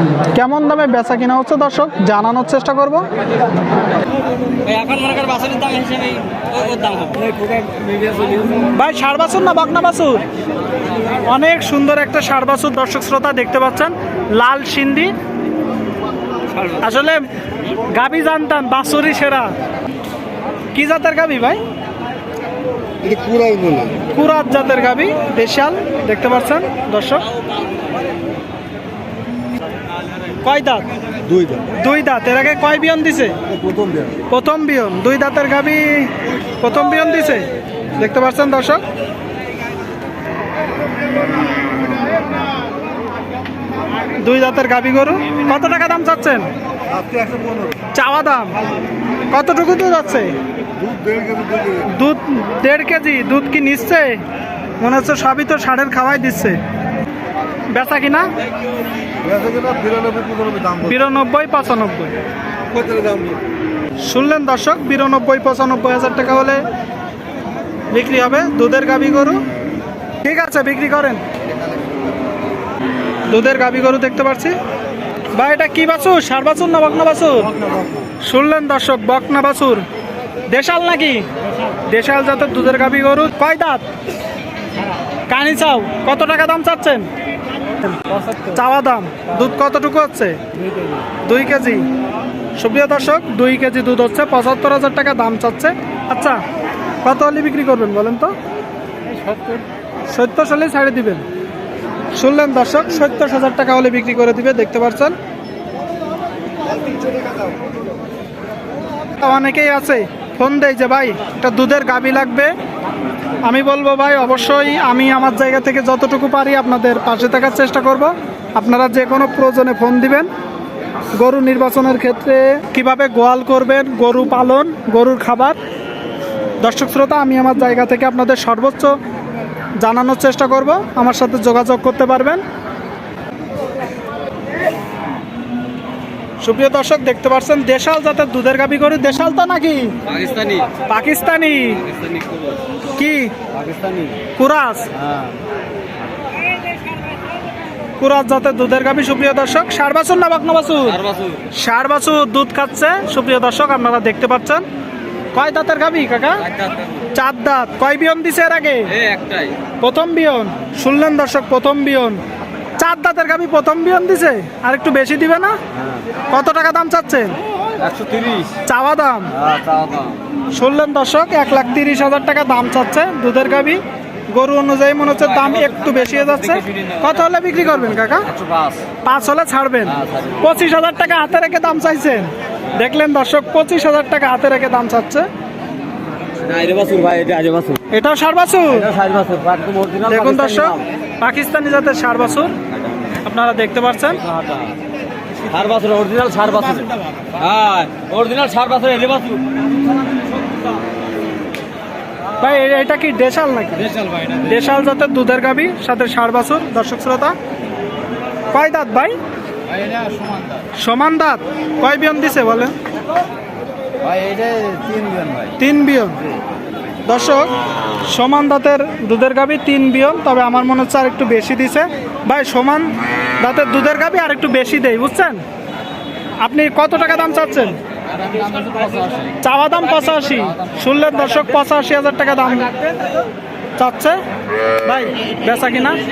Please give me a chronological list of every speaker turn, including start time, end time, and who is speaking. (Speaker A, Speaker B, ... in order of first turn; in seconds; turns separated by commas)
Speaker A: 0.3-3.1, Speaker B: 4.6-8.5, Speaker A: 8.7-10.2, Speaker A: 11.1-15.2, Speaker A: 16.7-19.5, Speaker A: 20.7-21.6, Speaker C: 23.0-24.0, Speaker A: 24.0-27.3, Speaker A: 30.4-30.9, Speaker C: 31.3-31.6, Speaker A: 31.7-33.4, Speaker C: 33.5-34.1, Speaker A: 34.3-38.8, Speaker A: 44.2-46.5, Speaker C: 46.9-47.7, Speaker A: 47.9-48.6, Speaker A: 49.3-50.4, Speaker C: 50.8-51.8, Speaker A: 51.8-54.2, Speaker A: 54.8-56.6, Speaker A: 57.7-58.3, Speaker C: 59.2-60.8, Speaker A: 60.8-62.2, Speaker C: 62.7-63.4, Speaker A: 64.0-66.7, Speaker A: 67.9-69.5, Speaker A: 70.2-71.2, Speaker A: 73.3-74.6, Speaker A: 75.3-77.5, Speaker A: 78.2-79.8, Speaker A: 80.5-83.8, Speaker A: 85.3-87.1, Speaker A: 87.9-90.4, Speaker A: 91.2-91.9, Speaker A: 92.6-96.4, Speaker A: 97.0-98.3, Speaker A: 100.1-101.2, Speaker A: 102.2-105.2, Speaker A: 109.2-112.5, Speaker A: 113.4-120.3, Speaker A: 121.1-125.6, Speaker A: 126.6-129.0, Speaker A: 129.8-132.4, Speaker A: 136.4-140.0, Speaker B: 140.1-140.8, Speaker A: 140.9-141.8, Speaker B: 142.0-142.6, Speaker A: 142.9-143.3, Speaker B: 143.5-144.2, Speaker A: 144.4-144.9, Speaker A: 148.0-154.7, Speaker B: 151.0-151.4, Speaker A: 155.3-156.5, Speaker B: 156.6-157.0, Speaker A: 157.1-159.0, Speaker B: 159.0-159.6, Speaker A: 159.8-162.2, Speaker A: 162.8-165.6, Speaker A: 166.3-167.4, Speaker B: 167.8-168.6, Speaker A: 168.6-169.4, Speaker B: 169.4-170.2, Speaker A: 170.5-178.3, Speaker B: 178.3-178.8, Speaker A: 179.0-185.3, Speaker B: 180.0-180.4, Speaker B: 186.4-187.8, Speaker A: 187.9-188.9, Speaker B: 188.8-190.8, Speaker A: 190.1-192.6, Speaker A: 193.2-194.2, Speaker B: 194.3-194.7, Speaker B: 195.5-199.6, Speaker A: 202.4-207.4, Speaker A: 208.5-209.2, Speaker A: 210.8-212.8, Speaker B: 214.0-215.5, Speaker A: 215.6-216.2, Speaker A: 217.1-225.4, Speaker A: 226.4-227.8, Speaker B: 228.3-229.2, Speaker A: 229.4-232.8, Speaker A: 233.8-234.2, Speaker A: 234.8-236.0